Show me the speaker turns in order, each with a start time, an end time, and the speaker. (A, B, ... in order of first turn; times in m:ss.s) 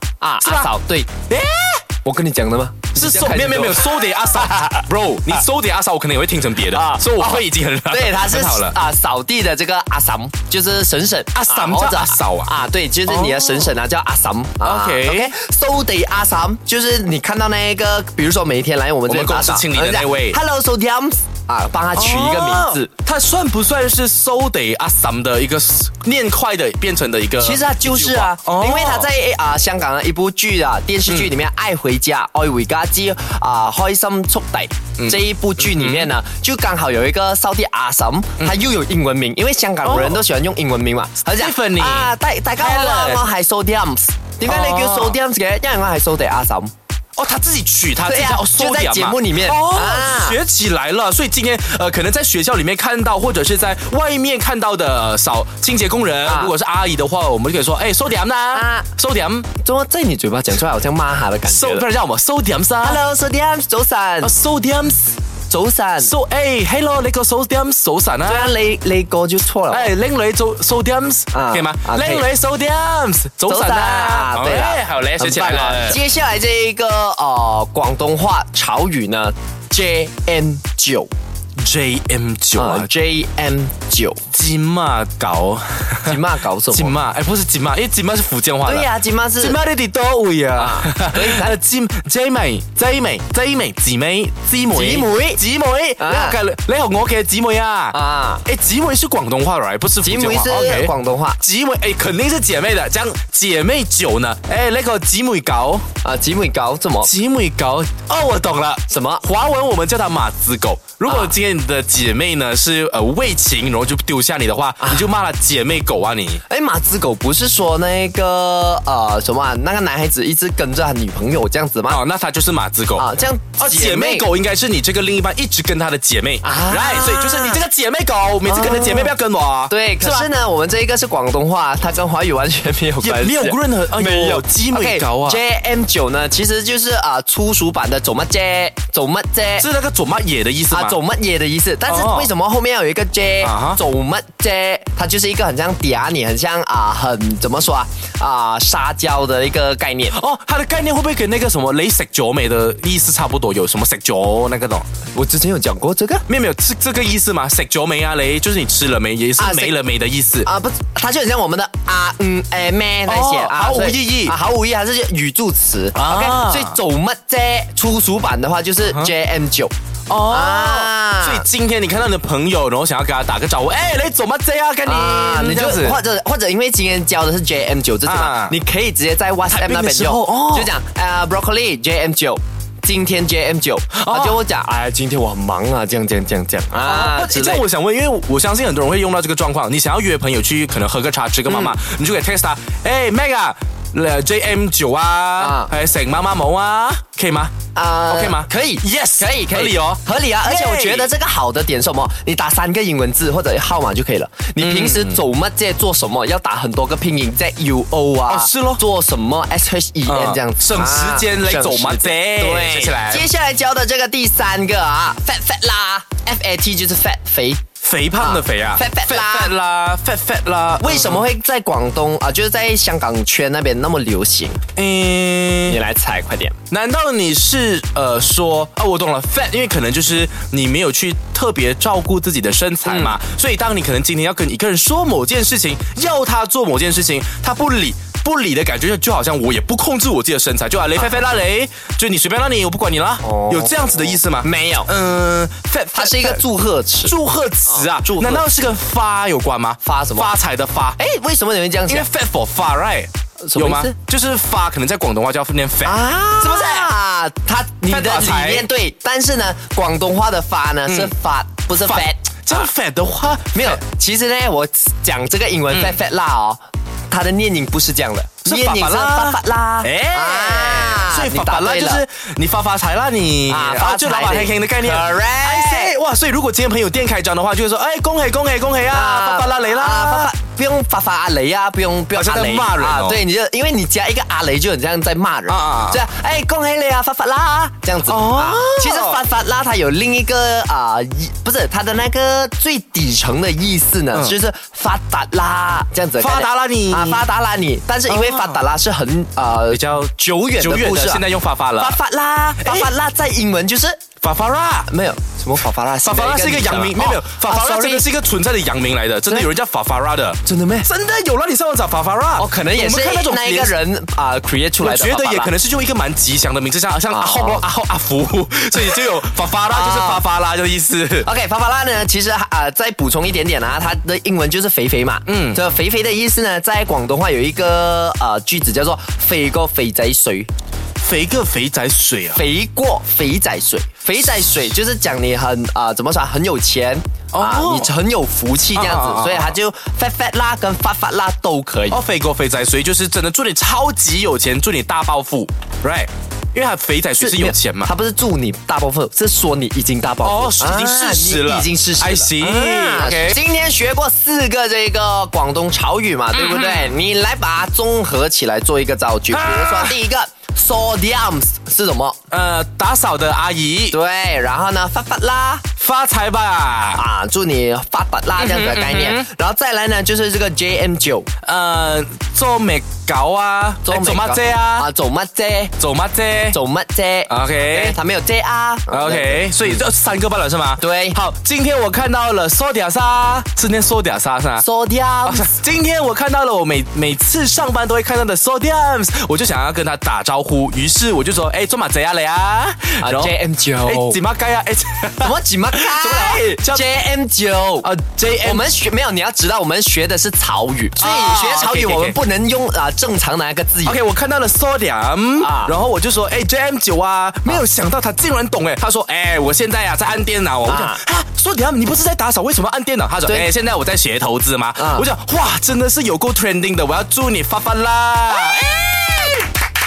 0:00.2-0:01.1 A
0:00.4-0:00.7 B
0:01.3-0:01.8 B
0:02.0-0:04.0 A
0:03.0-0:08.8 B
0:04.5-0:04.8 A
0:06.7-0:22.9 A
0:11.4-0:12.5 B
0:13.1-0:13.8 B
0:14.6-0:15.3 B
0:19.1-0:20.4 B
0:22.0-0:29.1 B
0:27.4-0:46.7 A
0:35.0-0:36.1 B
0:38.4-0:38.7 B
0:39.8-0:40.2 B
0:41.3-0:43.3 B
0:44.4-0:45.2 B
0:47.2-0:59.5 B
0:48.0-0:50.4 A
0:56.2-0:56.5 A
0:58.5-0:58.9 A
0:59.6-1:01.9 A
1:01.5-1:03.0 B
1:02.8-1:04.3 A
1:04.2-1:05.2 B
1:05.5-1:06.1 A
1:06.0-1:08.6 B
1:08.3-1:09.9 A
1:09.7-1:16.0 B
1:11.3-1:12.3 A
1:13.5-1:21.1 A
1:21.6-1:22.9 B
1:22.6-1:24.2 A
1:24.3-1:28.9 B
1:26.0-1:27.0 A
1:28.6-1:29.6 A
1:29.4-1:45.8 B
1:30.6-1:31.6 A
1:34.7-1:35.4 A
1:36.0-1:36.4 A
1:37.9-1:38.5 A
1:40.0-1:41.4 A
1:46.0-1:47.1 A
1:47.0-1:56.4 B
1:48.9-1:49.2 A
1:51.0-1:51.3 A
1:54.8-1:55.1 A
1:56.5-2:02.0 A
2:01.9-2:10.3 B
2:03.0-2:04.3 A
2:06.4-2:07.6 A
2:08.4-2:09.2 A
2:09.7-2:19.7 A
2:13.0-2:15.4 B
2:19.6-2:21.0 B
2:20.7-2:30.2 A
2:21.9-2:22.3 B
2:23.4-2:23.8 B
2:30.1-2:34.9 B
2:35.1-2:36.3 A
2:36.3-2:40.5 B
2:39.4-2:39.7 A
2:40.4-2:49.7 A
2:43.1-2:44.4 B
2:45.9-2:46.8 B
2:48.8-2:49.1 B
2:50.1-2:56.0 B
2:50.3-2:51.5 A
2:54.8-3:07.6 A
2:58.0-2:58.6 B
2:59.5-3:00.7 B
3:03.9-3:04.4 B
3:06.8-3:17.5 B
3:11.5-3:11.8 A
3:15.4-3:15.7 A
3:17.7-3:37.6 A
3:18.1-3:21.1 B
3:24.6-3:25.2 B
3:28.3-3:28.8 B
3:30.1-3:33.2 B
3:37.8-3:41.2 B
3:38.2-3:39.5 A
3:40.8-3:44.6 A
3:44.8-3:45.8 B
3:45.7-3:46.6 A
3:46.7-4:06.4 B
3:52.9-3:53.2 A
4:03.2-4:04.9 A
4:05.9-4:07.2 A
4:07.0-4:11.0 B
4:07.7-4:08.5 A
4:09.8-4:10.3 A
4:11.0-4:12.1 A
4:11.9-4:16.9 B
4:13.4-4:13.9 A
4:15.8-4:22.7 A
4:17.9-4:18.7 B
4:20.9-4:21.1 B
4:21.8-4:23.8 B
4:23.5-4:32.0 A
4:25.7-4:26.0 B
4:28.4-4:40.3 B
4:33.5-4:35.9 A
4:38.9-5:01.2 A
4:42.1-4:43.2 B
4:45.5-4:46.0 B
4:48.0-4:49.2 B
4:56.2-4:57.2 B
4:58.1-4:58.6 B
4:59.7-5:02.0 B
5:01.8-5:04.0 A
5:02.6-5:02.9 B
5:04.2-5:04.9 B
5:04.9-5:08.1 A
5:06.0-5:13.8 B
5:10.4-5:10.9 A
5:12.4-5:15.5 A
5:14.8-5:21.3 B
5:17.1-5:17.6 A
5:19.7-5:20.2 A
5:21.2-5:30.5 A
5:25.3-5:25.6 B
5:31.0-5:32.4 B
5:32.3-5:42.0 A
5:37.3-5:37.9 B
5:38.8-5:39.6 B
5:41.9-5:47.9 B
5:47.2-6:02.2 A
5:50.2-5:53.4 B
5:56.3-5:56.9 B
5:59.3-6:00.0 B
6:02.3-6:04.0 B
6:03.9-6:05.6 A
6:05.8-6:07.0 B
6:06.9-6:11.3 A
6:08.4-6:09.3 B
6:11.4-6:14.9 B
6:13.8-6:15.7 A
6:15.8-6:16.6 B
6:16.5-6:19.8 A
6:17.3-6:18.0 B
6:18.9-6:24.7 B
6:20.8-6:21.2 A
6:24.6-6:25.5 A
6:25.2-6:36.9 B
6:33.0-6:34.2 A
6:35.2-6:44.0 A
6:37.8-6:38.7 B
6:41.0-6:42.2 B
6:43.8-6:59.5 B
6:45.4-6:45.7 A
6:50.7-6:51.0 A
6:54.8-6:55.1 A